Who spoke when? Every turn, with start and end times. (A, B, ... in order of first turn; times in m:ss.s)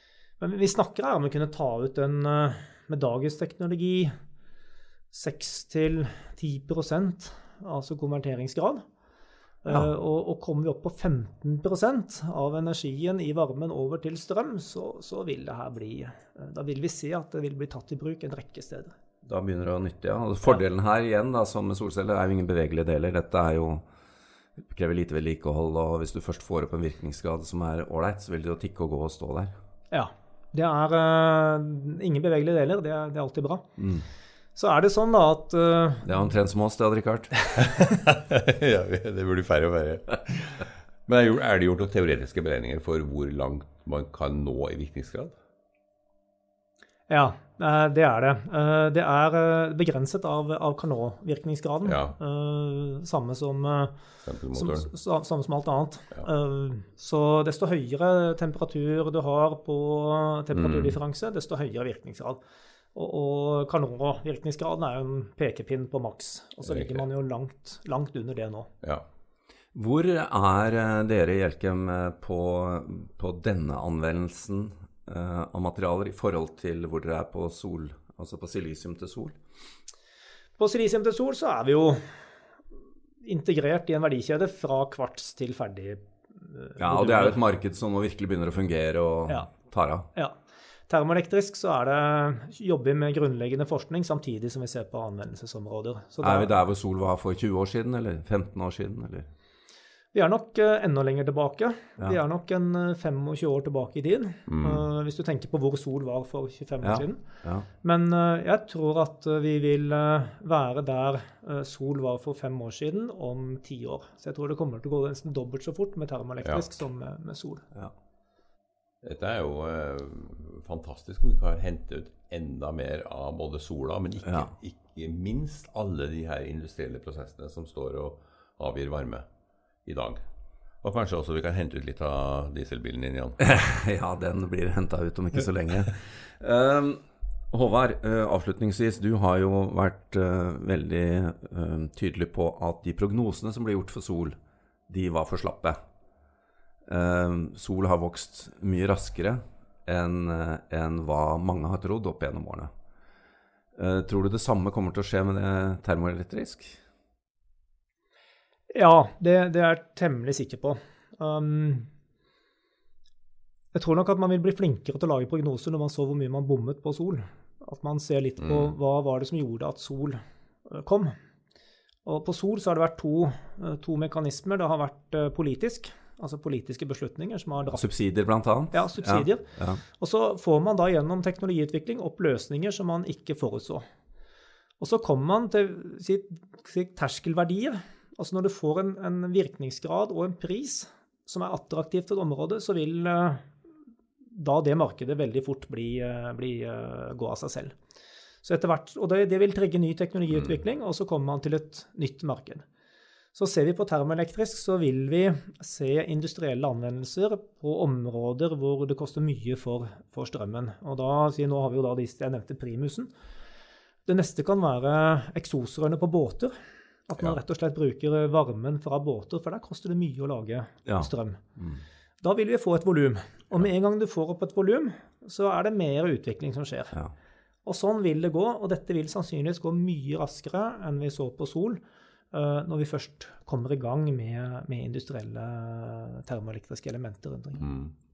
0:00.4-0:04.1 A
0:05.1-0:08.8 A
0:09.6-0:18.9 A
0:19.2-0:23.8 B
0:24.6-0:29.6 B
0:29.9-0:33.7 A
0:33.8-0:34.1 B
0:34.6-0:36.2 A
0:36.0-0:37.3 B
0:37.6-0:45.4 C
0:47.1-0:54.0 A
0:51.8-0:52.2 C
0:54.3-0:54.9 C
0:54.5-1:02.4 A
1:00.5-1:01.0 C
1:02.9-1:08.7 A
1:06.6-1:07.0 C
1:09.8-1:19.4 B
1:20.6-1:22.0 A
1:23.2-1:27.4 A
1:26.8-1:30.1 B
1:30.9-1:36.6 A
1:36.2-1:39.3 B
1:40.1-1:47.2 A
1:44.5-1:44.8 C
1:46.8-1:47.7 B
1:47.8-1:57.6 A
1:56.4-1:56.7 C
1:59.0-2:09.2 C
2:04.2-2:04.5 B
2:09.9-2:10.2 C
2:10.8-2:13.4 C
2:13.4-2:24.4 B
2:24.9-2:25.8 B
2:26.9-2:32.7 B
2:33.8-2:36.8 B
2:38.7-2:41.9 A
2:43.7-2:51.1 A
2:48.4-2:48.7 C
2:52.0-2:57.8 A
2:57.7-2:59.8 B
2:58.7-2:59.4 A
3:00.0-3:03.8 A
3:04.8-3:13.5 A
3:14.3-3:17.7 A
3:18.4-3:22.6 A
3:23.4-3:33.1 A
3:34.1-3:36.5 A
3:37.1-3:41.4 A
3:40.9-3:41.8 B
3:42.2-3:46.9 A
3:47.6-3:51.8 A
3:52.3-3:57.6 A
3:57.6-3:57.9 C